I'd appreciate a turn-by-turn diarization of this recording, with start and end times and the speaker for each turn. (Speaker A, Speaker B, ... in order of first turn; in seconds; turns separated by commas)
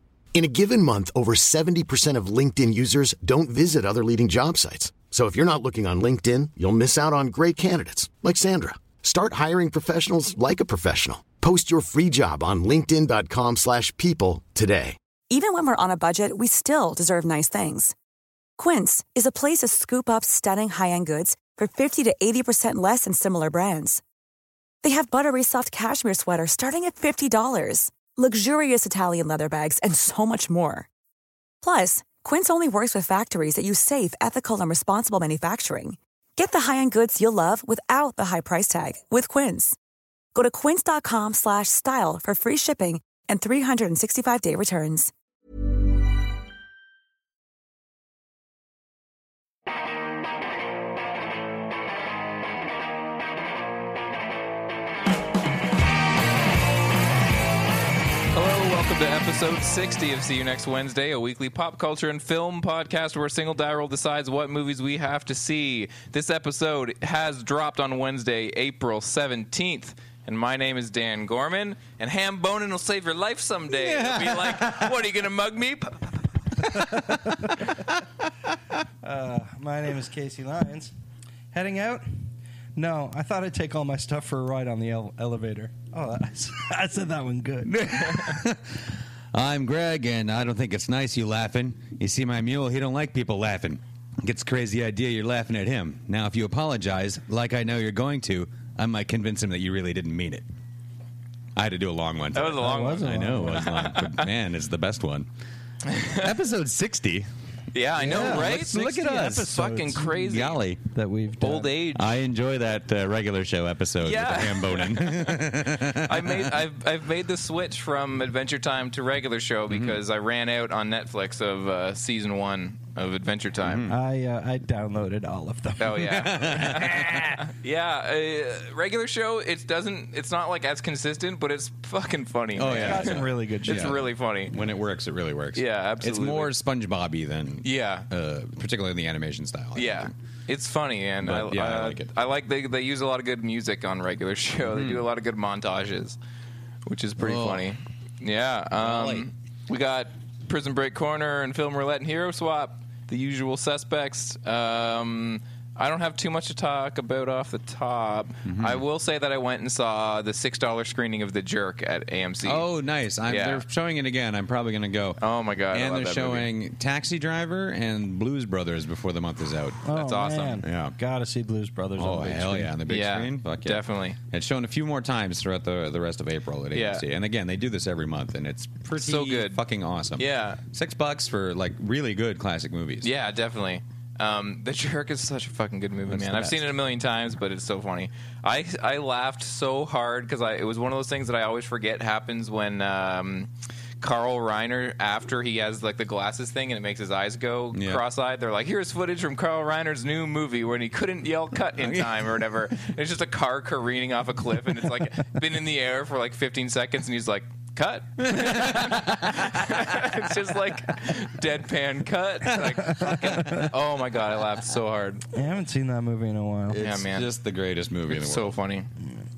Speaker A: 0.3-15.0, Speaker B: 15.3-17.9, Speaker B: 18.6-24.0, Speaker B: 24.8-30.9, Speaker B: 31.6-39.8, Speaker B: 40.3-45.1, Speaker C: 58.3-76.1, Speaker D: 73.7-75.1, Speaker D: 76.6-77.9, Speaker E: 76.7-77.6, Speaker E: 79.0-80.9, Speaker E: 81.5-82.2, Speaker E: 82.8-88.2, Speaker D: 87.7-100.5, Speaker D: 101.6-105.3, Speaker C: 102.3-104.3, Speaker E: 102.6-103.7, Speaker C: 105.9-106.3, Speaker D: 106.0-107.3, Speaker C: 107.7-108.8, Speaker E: 108.0-110.2, Speaker D: 108.0-110.8, Speaker C: 109.3-110.6, Speaker E: 110.9-111.7, Speaker C: 111.4-112.1, Speaker D: 111.9-116.7, Speaker C: 114.0-123.9, Speaker D: 119.7-120.0, Speaker D: 123.6-124.0, Speaker E: 123.9-126.6, Speaker C: 125.8-134.5, Speaker D: 126.0-127.4, Speaker D: 132.6-140.1, Speaker E: 132.6-134.1, Speaker C: 135.6-136.5, Speaker C: 137.6-138.1, Speaker C: 139.8-146.2, Speaker D: 141.2-142.1, Speaker D: 144.7-145.1, Speaker C: 146.9-162.7, Speaker D: 147.2-147.7, Speaker D: 148.8-149.3, Speaker D: 158.4-158.8, Speaker D: 162.4-169.9, Speaker C: 163.3-163.6, Speaker C: 165.2-166.5, Speaker E: 169.9-172.8, Speaker C: 169.9-170.6, Speaker D: 170.6-171.0, Speaker D: 172.0-183.1, Speaker C: 172.9-174.2, Speaker C: 176.7-177.0, Speaker C: 178.9-179.6, Speaker C: 180.2-180.6, Speaker C: 183.0-193.5, Speaker D: 186.1-186.7, Speaker C: 194.0-215.2, Speaker D: 197.7-198.0, Speaker D: 201.8-202.3, Speaker D: 208.2-211.1, Speaker D: 212.4-213.6, Speaker E: 213.0-213.7, Speaker E: 215.3-216.8, Speaker D: 216.7-218.6, Speaker C: 216.8-217.3, Speaker C: 218.1-218.9